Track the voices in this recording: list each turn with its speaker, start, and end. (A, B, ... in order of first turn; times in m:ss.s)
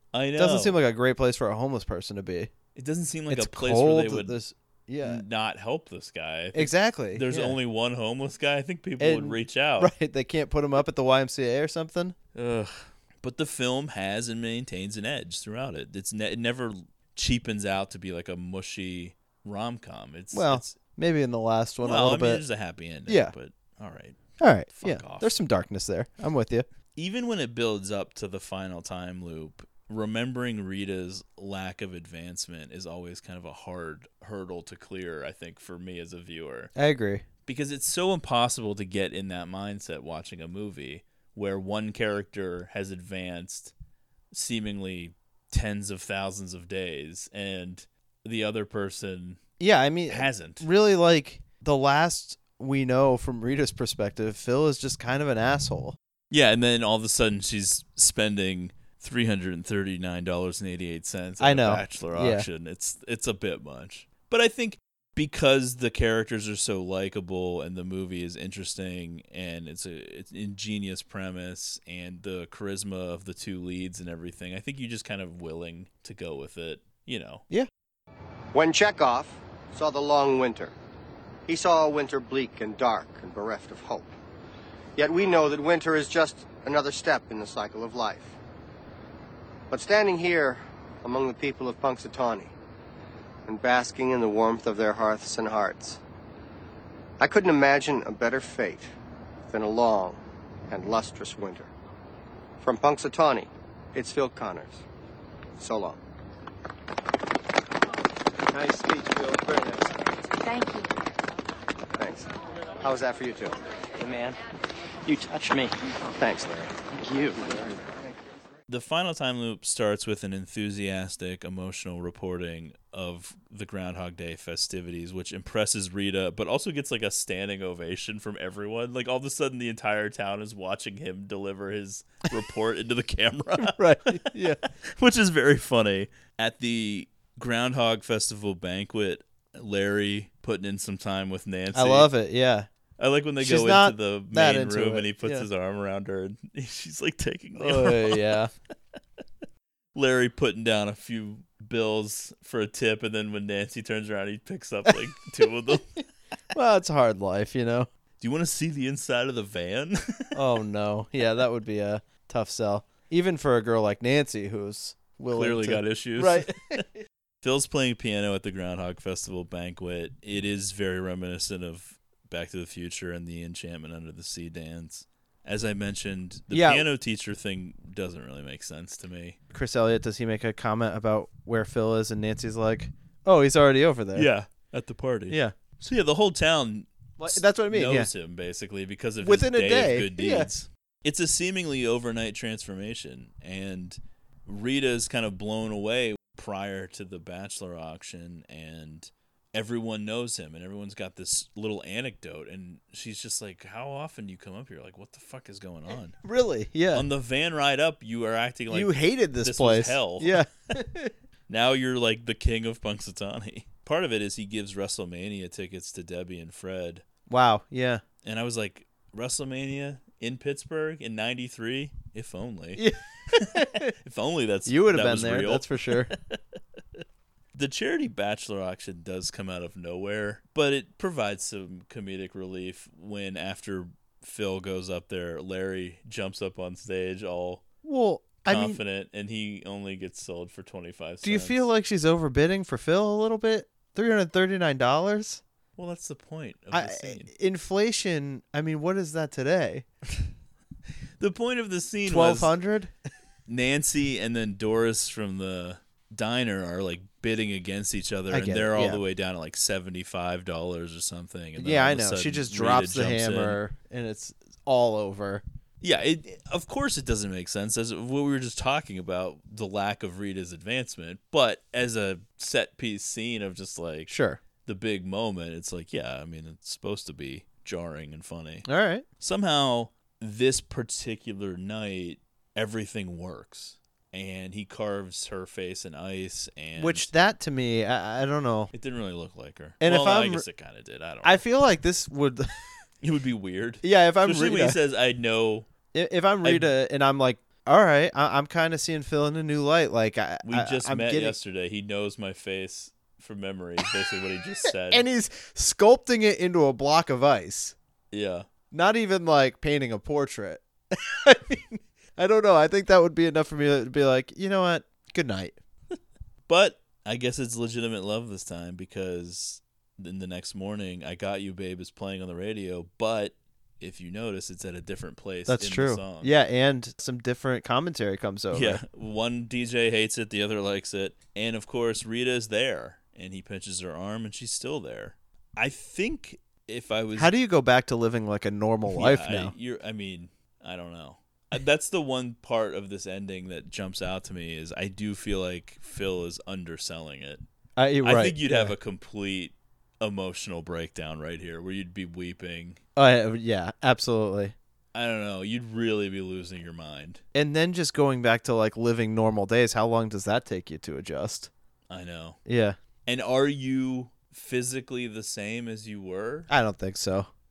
0:00.1-0:00.8 A
0:00.4-0:02.5 B
0:02.7-0:04.4 A
0:03.3-0:05.2 B
0:05.0-0:09.9 A
0:06.5-0:07.6 B
0:09.0-0:12.2 B
0:12.3-0:20.8 A
0:20.3-0:22.4 B
0:21.8-0:24.2 A
0:23.1-0:23.3 B
0:24.4-0:26.6 B
0:24.7-0:25.3 A
0:26.9-0:36.7 A
0:36.7-0:37.2 B
0:37.4-0:43.7 A
0:44.3-0:49.4 A
0:49.6-0:56.0 B
0:50.1-0:50.7 A
0:56.3-1:17.4 A
1:01.4-1:02.5 B
1:18.5-1:20.7 C
1:21.5-1:24.1 C
1:25.0-1:28.4 C
1:29.7-1:32.5 C
1:33.4-1:36.0 C
1:37.2-1:38.9 C
1:39.5-1:41.7 C
1:42.6-1:44.8 C
1:45.6-1:46.0 C
1:48.7-1:49.8 C
1:52.0-1:52.3 C
1:52.8-1:53.6 C
1:54.0-1:54.4 D
1:55.0-1:55.7 D
1:56.2-1:56.8 C
1:56.8-1:57.8 D
1:58.7-2:22.1 A
2:13.6-2:14.6 B
2:21.7-2:22.7 B
2:23.0-2:28.4 A
2:23.4-2:25.5 B
2:27.6-2:28.5 B
2:29.9-2:36.0 A
2:36.5-2:37.9 B
2:38.2-2:40.3 A
2:40.3-2:46.8 B
2:45.3-2:46.5 A
2:47.4-2:59.4 A
2:56.5-2:56.8 B
2:59.5-3:04.3 B
3:04.1-3:26.2 A
3:05.3-3:05.5 B
3:07.2-3:08.1 B
3:09.2-3:10.5 B
3:26.2-3:27.0 B
3:26.9-3:30.4 A
3:28.7-3:31.1 B
3:31.5-3:37.0 A
3:37.3-3:38.0 B
3:38.2-3:42.8 A
3:42.8-3:43.9 B
3:43.4-3:46.4 A
3:44.6-3:46.1 B
3:47.5-3:57.6 A
3:57.8-3:58.8 B
3:58.4-4:01.6 A
4:01.2-4:05.4 B
4:05.8-4:07.3 A
4:06.7-4:09.8 B
4:11.2-4:12.5 A
4:12.0-4:12.9 B
4:13.5-4:23.6 A
4:18.3-4:19.0 B
4:21.6-4:25.4 B
4:25.8-4:34.1 A
4:34.1-4:34.4 B
4:34.6-4:38.7 A
4:38.6-4:39.0 B
4:39.2-4:47.1 A
4:46.8-4:48.7 B
4:48.7-4:51.4 A
4:49.8-4:50.4 B
4:51.2-4:52.5 B
4:53.0-4:55.7 A
4:53.8-4:54.8 B
4:55.9-5:01.4 B
4:56.4-4:56.7 A
5:00.4-5:05.0 A
5:04.9-5:07.7 B
5:08.1-5:08.5 A
5:08.7-5:15.6 B
5:16.5-5:26.3 A
5:25.5-5:28.8 B
5:28.5-5:37.3 A
5:37.2-5:39.5 B
5:38.9-5:47.4 A
5:47.8-5:48.7 B
5:48.0-5:52.8 A
5:53.0-5:54.5 B
5:54.9-5:57.2 A
5:57.3-6:01.5 B
6:01.9-6:02.4 A
6:02.4-6:02.8 B
6:03.0-6:06.5 A
6:06.5-6:07.3 B